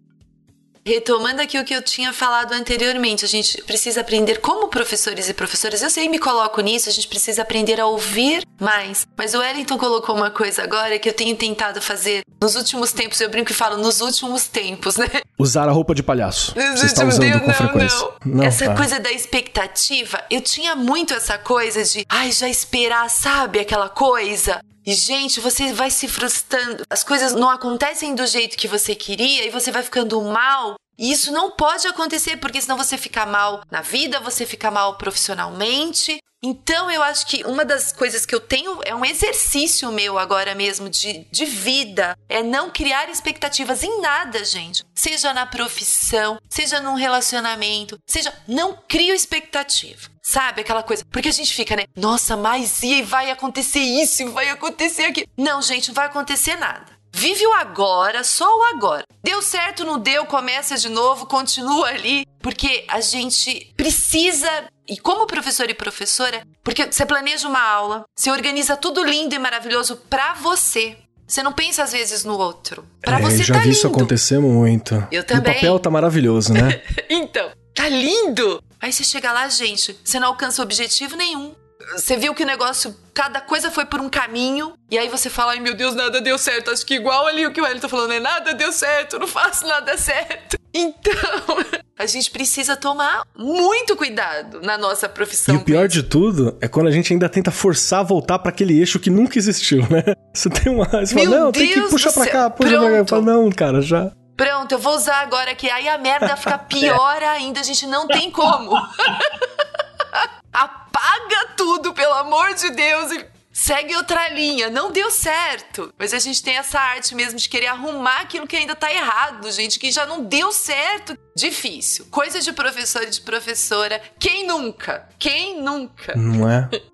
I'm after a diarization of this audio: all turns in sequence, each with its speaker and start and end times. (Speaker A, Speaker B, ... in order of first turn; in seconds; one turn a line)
Speaker A: 0.8-15.2
Speaker B: 15.4-18.9
Speaker A: 16.5-74.1
Speaker B: 73.0-76.8
Speaker A: 75.1-75.8
Speaker A: 76.5-96.0
Speaker B: 95.5-104.1
Speaker A: 101.1-103.3
Speaker A: 104.3-126.5
Speaker B: 126.1-126.7